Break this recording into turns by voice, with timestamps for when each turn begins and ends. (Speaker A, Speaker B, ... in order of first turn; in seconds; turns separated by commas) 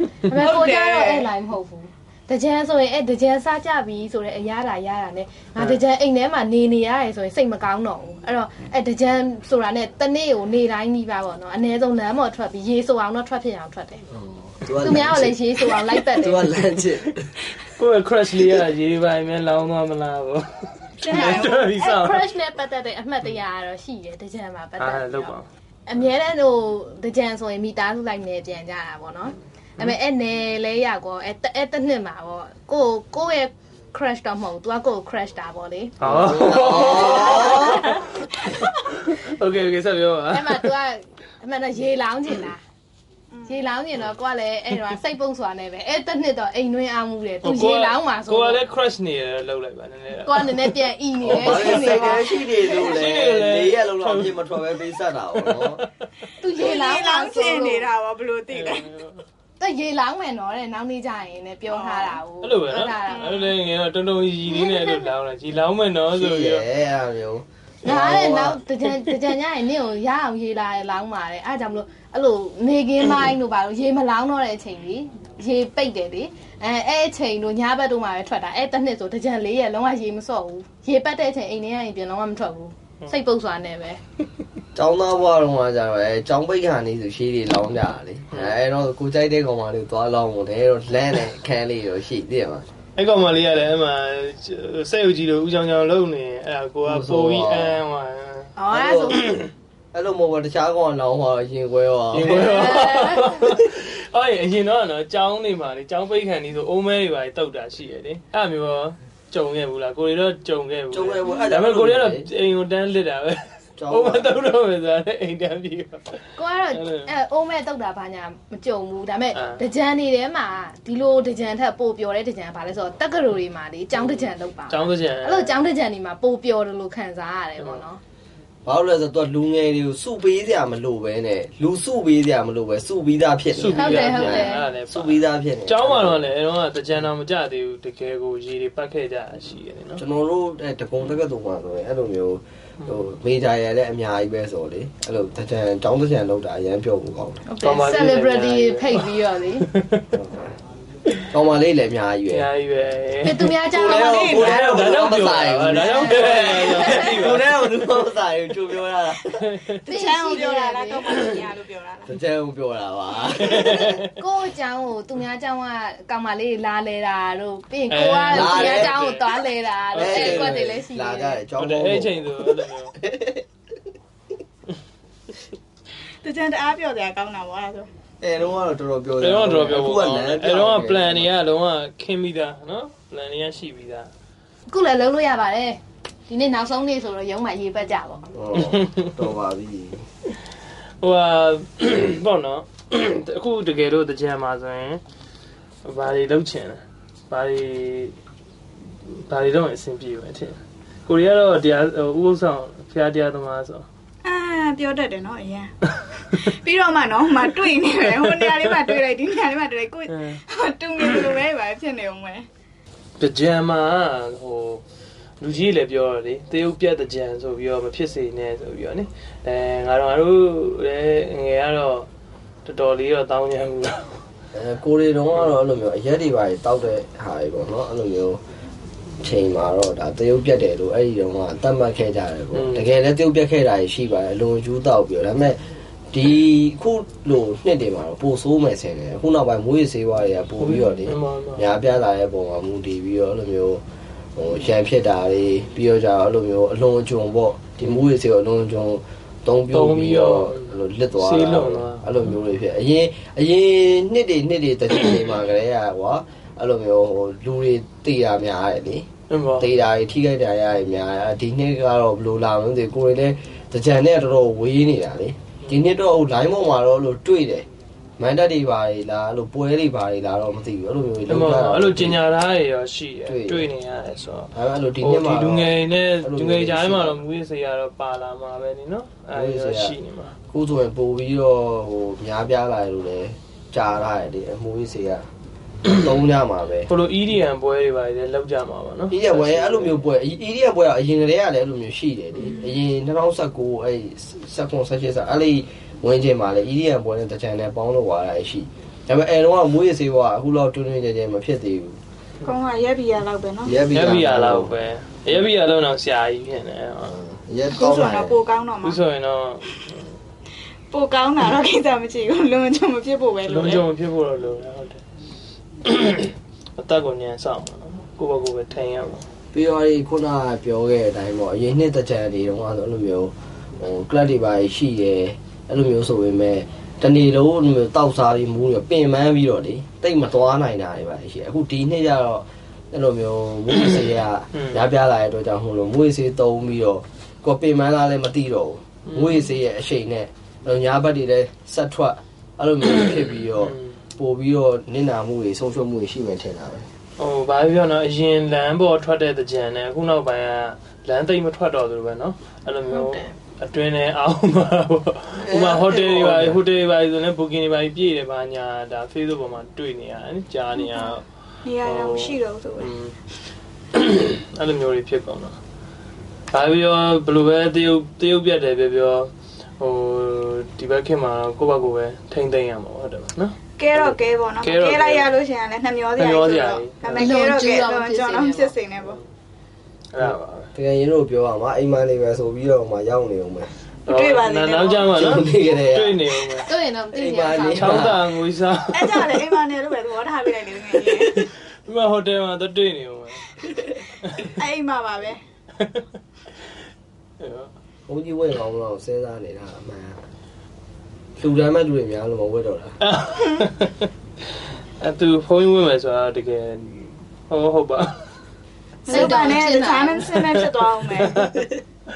Speaker A: 0.2-14.1, Speaker B: 0.3-1.3, Speaker C: 14.1-17.4, Speaker A: 14.7-16.5, Speaker D: 17.6-22.3, Speaker B: 21.0-21.7, Speaker A: 21.2-25.3, Speaker D: 24.8-25.5, Speaker A: 25.9-38.0, Speaker D: 36.0-40.7, Speaker C: 36.0-37.9, Speaker A: 40.3-42.6, Speaker B: 43.3-43.6, Speaker A: 43.5-48.6, Speaker D: 47.4-51.6, Speaker A: 50.2-52.8, Speaker C: 51.2-55.8, Speaker B: 51.6-52.9, Speaker D: 52.7-54.6, Speaker D: 55.3-55.9, Speaker A: 56.4-57.9, Speaker B: 56.4-58.9, Speaker D: 58.5-59.2, Speaker A: 59.6-63.3, Speaker B: 61.7-62.2, Speaker D: 62.4-66.6, Speaker B: 63.0-63.5, Speaker A: 64.5-65.1, Speaker C: 66.1-68.6, Speaker A: 67.8-84.0, Speaker C: 84.7-92.7, Speaker D: 93.0-98.5, Speaker C: 96.8-97.8, Speaker A: 98.5-99.3, Speaker C: 98.7-99.4, Speaker C: 99.9-102.5, Speaker D: 102.1-117.1, Speaker A: 102.3-103.3, Speaker C: 110.9-112.3, Speaker C: 113.8-114.4, Speaker A: 116.3-128.0, Speaker D: 119.3-119.6, Speaker D: 124.7-125.6, Speaker C: 128.6-136.3, Speaker D: 133.5-140.0, Speaker A: 133.7-134.7, Speaker C: 140.0-147.4, Speaker A: 147.4-149.7, Speaker D: 147.6-150.0, Speaker C: 150.1-150.6, Speaker C: 151.3-152.5, Speaker D: 152.3-153.6, Speaker A: 153.2-154.6, Speaker C: 153.6-159.5, Speaker B: 153.7-155.1, Speaker D: 154.3-157.5, Speaker A: 155.7-157.3, Speaker D: 159.4-159.8, Speaker B: 159.8-162.1, Speaker A: 159.8-161.2, Speaker C: 162.1-163.9, Speaker D: 163.4-164.1, Speaker A: 164.0-171.4, Speaker D: 167.9-169.2, Speaker C: 168.3-169.0, Speaker D: 169.9-170.8, Speaker C: 170.0-172.5, Speaker D: 171.6-173.0, Speaker C: 173.0-173.4, Speaker B: 176.2-177.9, Speaker C: 178.2-181.3, Speaker D: 179.2-184.1, Speaker A: 184.7-188.3, Speaker C: 188.3-190.1, Speaker D: 188.7-189.1, Speaker D: 191.0-195.0, Speaker D: 195.8-198.1, Speaker D: 199.0-203.9, Speaker B: 204.2-205.7, Speaker B: 206.3-212.5, Speaker D: 210.1-210.4, Speaker D: 213.2-214.8, Speaker D: 215.4-222.1, Speaker D: 222.6-224.2, Speaker C: 224.5-228.4, Speaker C: 229.2-235.6, Speaker D: 232.5-232.8, Speaker C: 236.1-243.8, Speaker D: 240.6-241.6, Speaker C: 244.3-259.1, Speaker D: 249.7-252.1, Speaker D: 259.3-259.7, Speaker C: 259.6-267.6, Speaker C: 268.2-272.2, Speaker D: 271.3-280.3, Speaker C: 273.2-273.7, Speaker C: 274.5-277.2, Speaker C: 279.3-279.9, Speaker C: 280.5-285.3, Speaker C: 285.8-286.9, Speaker D: 286.9-290.0, Speaker C: 289.1-302.0, Speaker B: 302.4-303.8, Speaker C: 303.6-304.7, Speaker D: 303.9-307.2, Speaker C: 307.0-308.4, Speaker B: 307.7-309.0, Speaker D: 308.8-310.1, Speaker B: 310.9-313.9, Speaker D: 313.4-315.0, Speaker D: 315.8-319.2, Speaker C: 319.5-346.9, Speaker D: 343.6-343.9, Speaker D: 347.2-361.3, Speaker C: 355.3-356.6, Speaker B: 360.8-361.1, Speaker B: 361.6-362.9, Speaker D: 361.8-363.2, Speaker D: 363.9-365.6, Speaker D: 366.5-375.3, Speaker B: 373.8-379.2, Speaker D: 376.2-377.3, Speaker A: 377.2-378.7, Speaker D: 380.1-380.7, Speaker C: 380.2-383.7, Speaker B: 384.1-385.1, Speaker D: 384.1-386.7, Speaker C: 385.1-386.2, Speaker A: 386.6-388.1, Speaker C: 387.1-388.2, Speaker D: 387.7-389.4, Speaker B: 388.9-391.5, Speaker D: 391.3-394.5, Speaker B: 394.4-395.4, Speaker D: 397.4-397.7, Speaker C: 398.1-400.2, Speaker C: 401.4-403.0, Speaker D: 403.0-404.1, Speaker D: 405.0-408.2, Speaker B: 409.1-411.6, Speaker A: 409.1-410.4, Speaker D: 411.2-411.6